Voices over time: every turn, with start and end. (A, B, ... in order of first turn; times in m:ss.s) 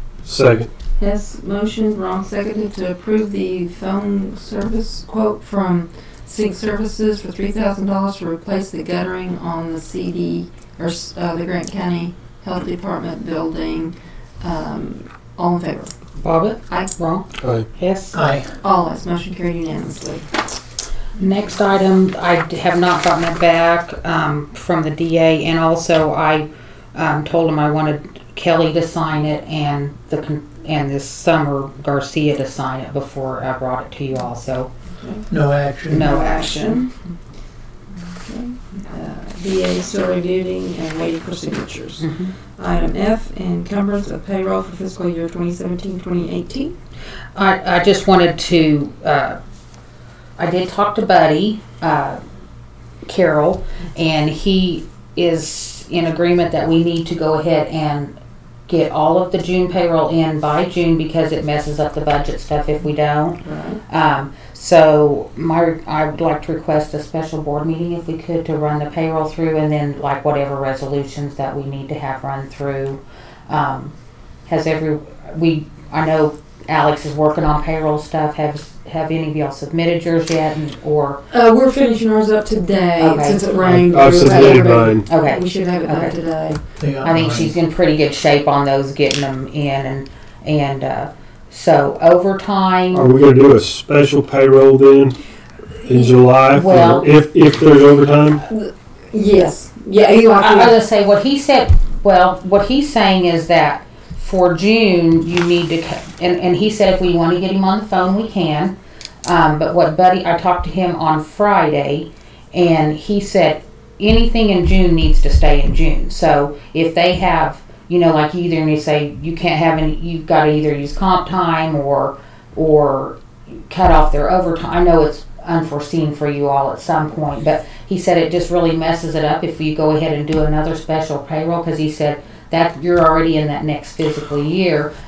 0:00.2-0:00.7 A
0:01.0-0:15.9 B
0:16.2-0:18.2 C
0:17.4-0:17.7 A
0:18.1-0:18.5 D
0:18.6-0:20.2 B
0:21.2-0:34.7 C
0:35.0-0:35.3 B
0:35.3-0:36.1 D
0:35.9-0:36.9 C
0:35.9-0:36.9 B
0:38.2-0:42.1 B
0:42.0-0:42.3 C
0:42.6-0:46.7 B
0:47.3-0:49.4 C
0:50.4-0:52.2 C
0:53.0-0:58.1 C
0:58.7-1:13.9 C
1:03.4-1:03.8 B
1:14.4-1:21.2 C
1:21.3-1:26.6 B
1:23.0-1:23.5 C
1:23.9-1:25.1 A
1:25.0-1:26.1 C
1:26.8-1:27.6 D
1:27.0-1:33.1 C
1:32.9-1:35.2 A
1:35.8-1:38.4 A
1:36.5-1:37.1 C
1:38.5-1:40.8 B
1:40.4-2:14.9 C